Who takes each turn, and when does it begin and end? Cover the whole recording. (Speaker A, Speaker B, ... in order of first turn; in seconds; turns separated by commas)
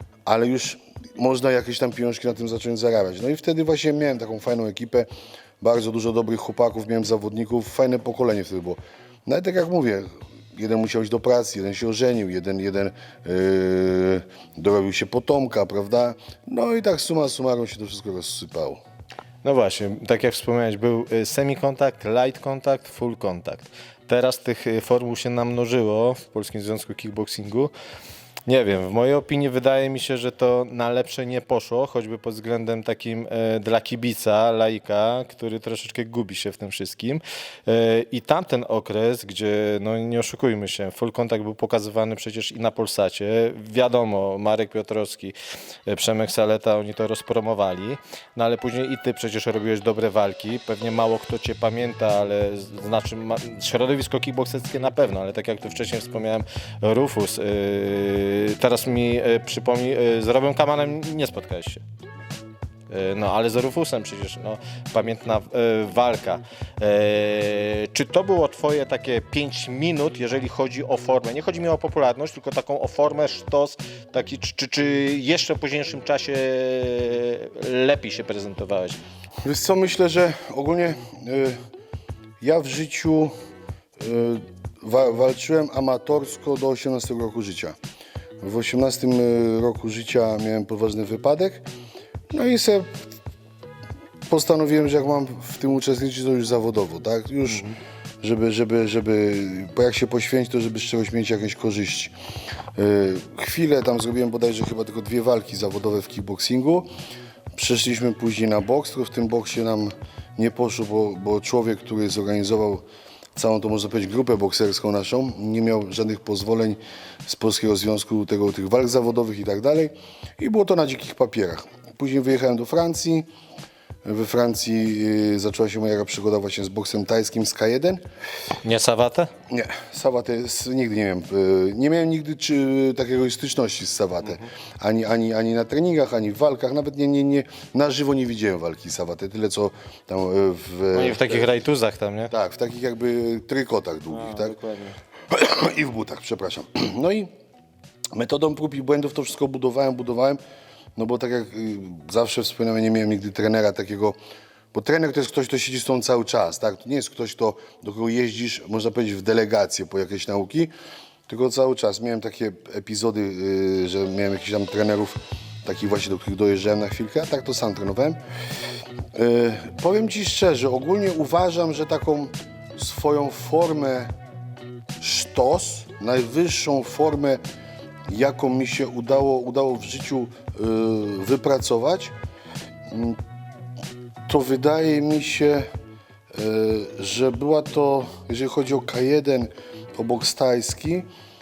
Speaker A: 0.3-5.1, Speaker A: 5.6-18.8, Speaker B: 19.4-27.7, Speaker B: 28.5-45.4, Speaker B: 45.9-61.8, Speaker B: 62.9-79.0, Speaker A: 79.5-81.6, Speaker A: 82.4-83.3, Speaker A: 84.0-87.8, Speaker A: 88.4-91.7, Speaker A: 92.3-93.0, Speaker A: 94.3-97.7, Speaker B: 97.5-97.8, Speaker A: 98.2-102.1, Speaker A: 102.8-106.9, Speaker A: 107.6-123.3, Speaker A: 124.0-128.0, Speaker B: 128.6-129.3, Speaker A: 129.5-141.6, Speaker B: 140.9-142.3, Speaker A: 142.3-144.6, Speaker B: 144.1-145.0, Speaker A: 145.3-147.3, Speaker A: 148.1-150.4, Speaker A: 151.0-154.2, Speaker A: 154.7-160.7, Speaker A: 161.3-168.2, Speaker A: 169.1-174.1, Speaker A: 175.0-177.4, Speaker A: 178.1-182.2, Speaker A: 182.9-183.2, Speaker A: 184.3-185.7, Speaker A: 186.3-191.1